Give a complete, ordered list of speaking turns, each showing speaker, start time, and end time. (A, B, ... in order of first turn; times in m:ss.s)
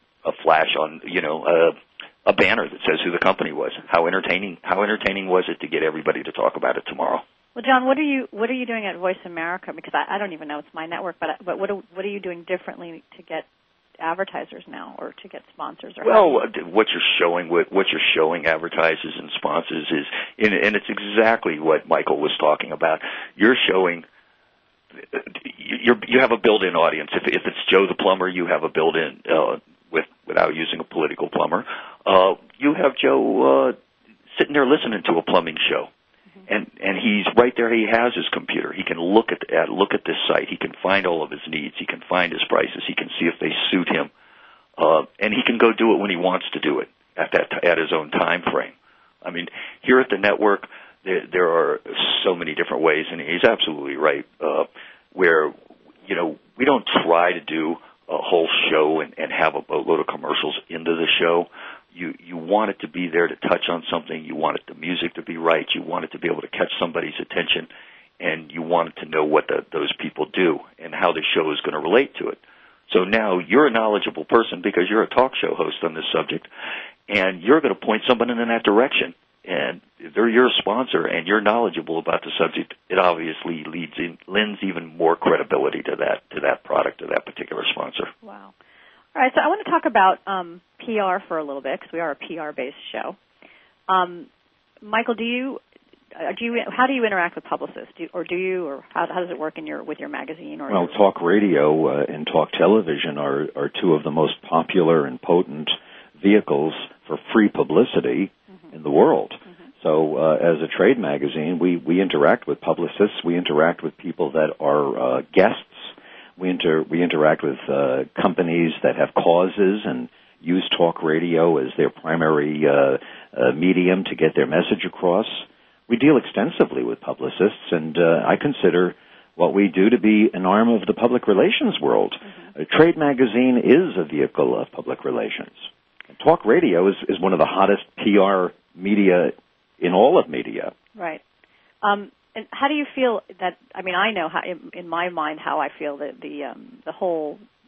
0:00.2-0:07.2 A
0:07.6-0:13.4 B
0:14.0-0:16.4 B
0:16.0-0:24.0 A
0:25.1-0:33.8 A
0:34.3-0:35.9 A
0:36.5-0:44.1 A
0:44.8-0:55.5 A
0:56.0-1:07.7 A
1:08.2-1:16.5 A
1:17.1-1:28.1 A
1:28.2-1:28.5 B
1:29.1-1:33.2 B
1:33.9-1:34.3 B
1:34.8-1:35.6 B
1:36.2-1:41.0 B
1:40.7-2:20.7 C
2:20.9-2:21.2 B
2:21.8-2:27.4 B